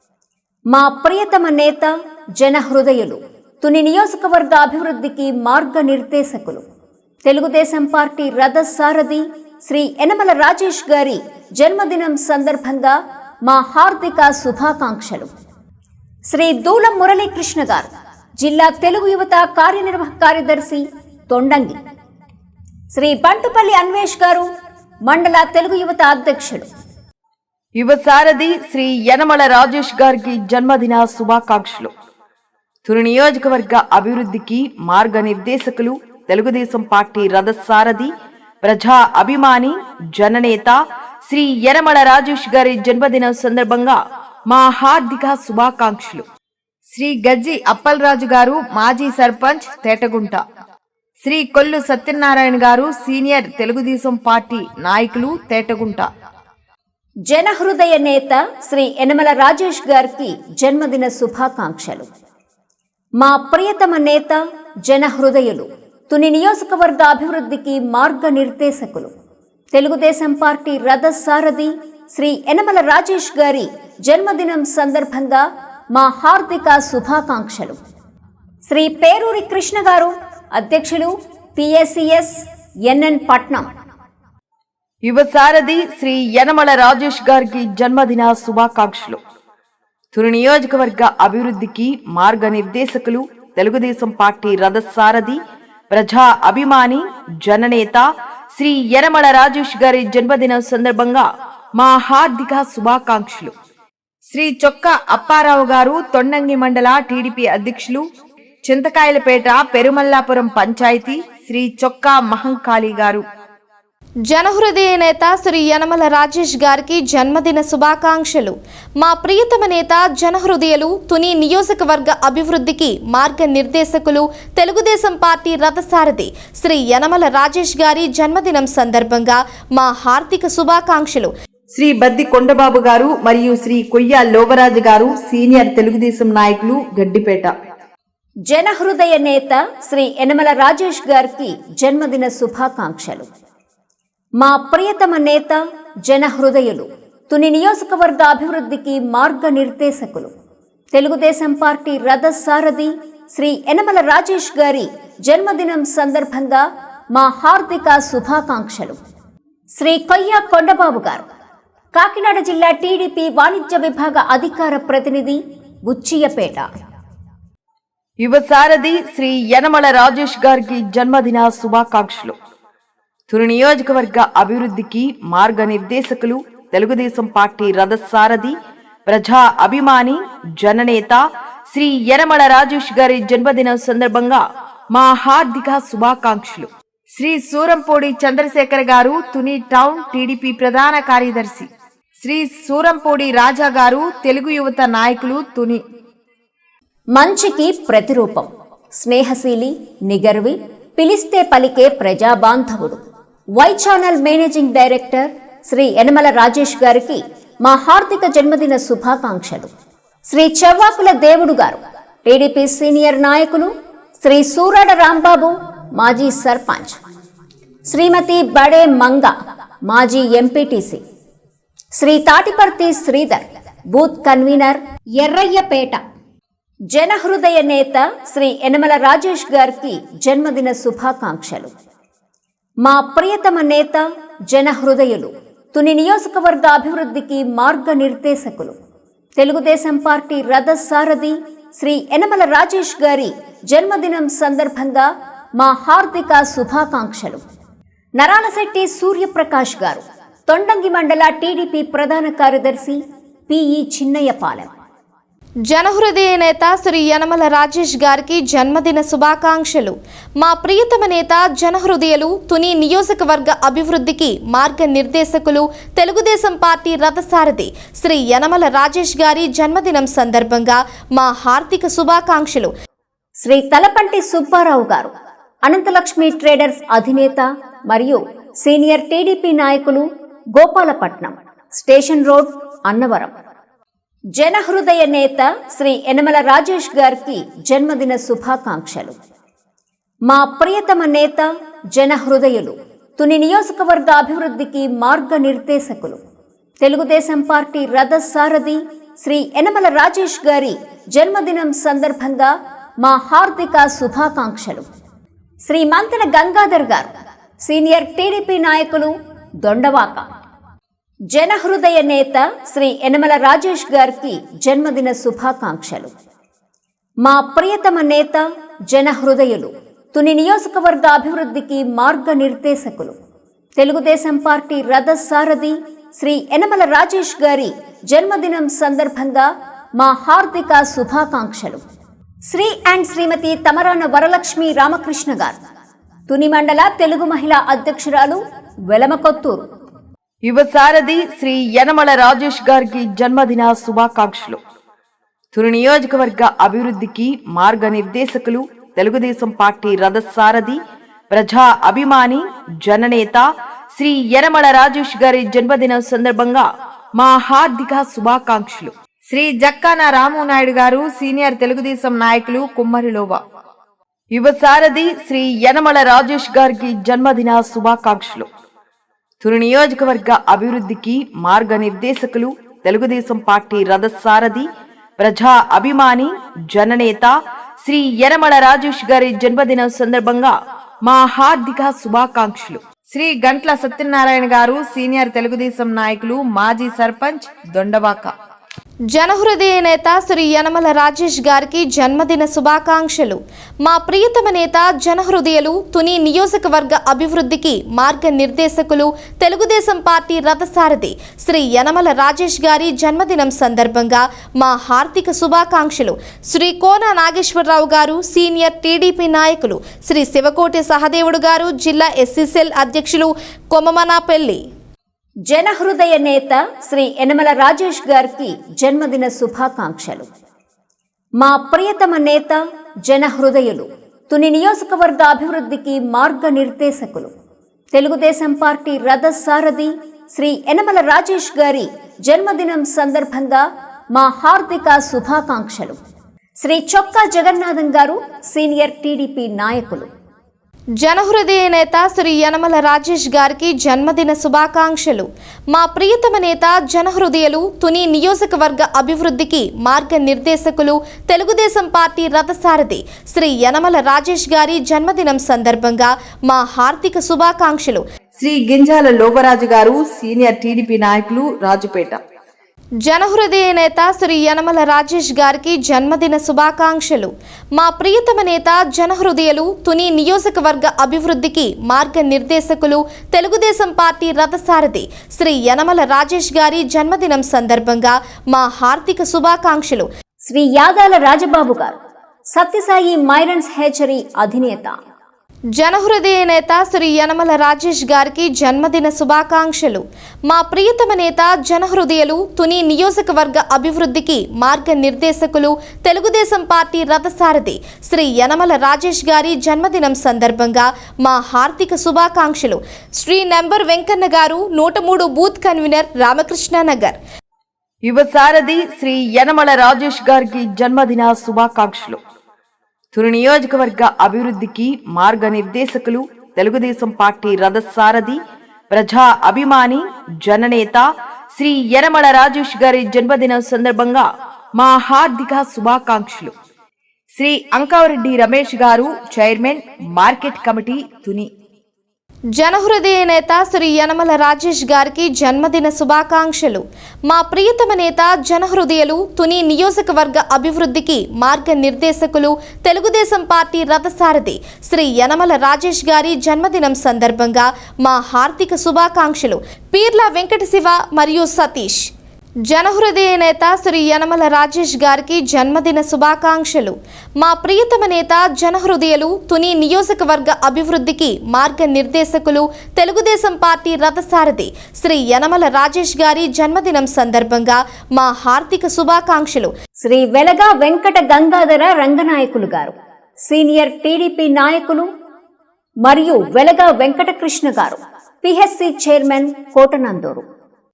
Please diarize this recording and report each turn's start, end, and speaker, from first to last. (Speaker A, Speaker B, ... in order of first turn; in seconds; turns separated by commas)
Speaker A: 0.7-6.6, Speaker A: 7.2-15.3, Speaker A: 16.3-21.8, Speaker A: 22.9-24.5, Speaker A: 25.1-26.7, Speaker B: 27.8-31.9, Speaker B: 32.8-38.1, Speaker B: 38.6-44.0, Speaker B: 44.5-46.2, Speaker B: 46.9-50.4, Speaker B: 51.2-56.1, Speaker A: 57.3-62.1, Speaker A: 63.2-69.1, Speaker A: 69.7-77.8, Speaker A: 78.6-83.7, Speaker B: 85.0-89.2, Speaker B: 90.1-95.4, Speaker B: 95.9-103.5, Speaker B: 104.3-108.0, Speaker B: 108.6-113.2, Speaker C: 114.3-131.3, Speaker B: 131.7-137.5, Speaker A: 138.5-143.3, Speaker A: 144.4-150.3, Speaker A: 150.9-159.0, Speaker A: 159.7-161.2, Speaker A: 161.9-166.7, Speaker B: 168.2-172.3, Speaker B: 173.3-178.5, Speaker B: 179.1-191.7, Speaker B: 192.2-195.8, Speaker A: 197.1-203.0, Speaker A: 203.6-209.7, Speaker A: 210.3-217.0, Speaker A: 217.8-219.3, Speaker A: 219.9-221.0, Speaker A: 222.0-226.0, Speaker A: 226.9-231.7, Speaker A: 232.8-238.7, Speaker A: 239.4-247.4, Speaker A: 248.2-254.7, Speaker C: 255.7-272.7, Speaker A: 273.4-275.1, Speaker A: 275.6-283.3, Speaker A: 284.4-289.1, Speaker A: 290.3-296.2, Speaker A: 296.8-304.9, Speaker A: 305.6-310.2, Speaker A: 311.3-316.1, Speaker A: 317.2-323.1, Speaker A: 323.8-331.8, Speaker A: 332.4-335.6, Speaker A: 336.3-339.6, Speaker B: 340.4-344.6, Speaker B: 345.5-350.8, Speaker B: 351.3-363.4, Speaker B: 364.3-368.5, Speaker B: 369.4-374.7, Speaker B: 375.2-388.3, Speaker C: 389.1-414.6, Speaker A: 415.5-420.3, Speaker A: 421.4-427.3, Speaker A: 427.9-436.0, Speaker A: 436.6-440.1, Speaker C: 441.0-458.0, Speaker B: 458.4-462.2, Speaker C: 463.0-480.1, Speaker A: 480.4-481.9, Speaker A: 482.5-485.0, Speaker C: 485.7-507.2, Speaker B: 508.0-512.2, Speaker B: 513.1-518.4, Speaker B: 518.9-526.5, Speaker B: 527.3-531.5, Speaker C: 532.5-552.0, Speaker C: 552.7-569.7, Speaker A: 570.0-575.1, Speaker A: 576.0-580.4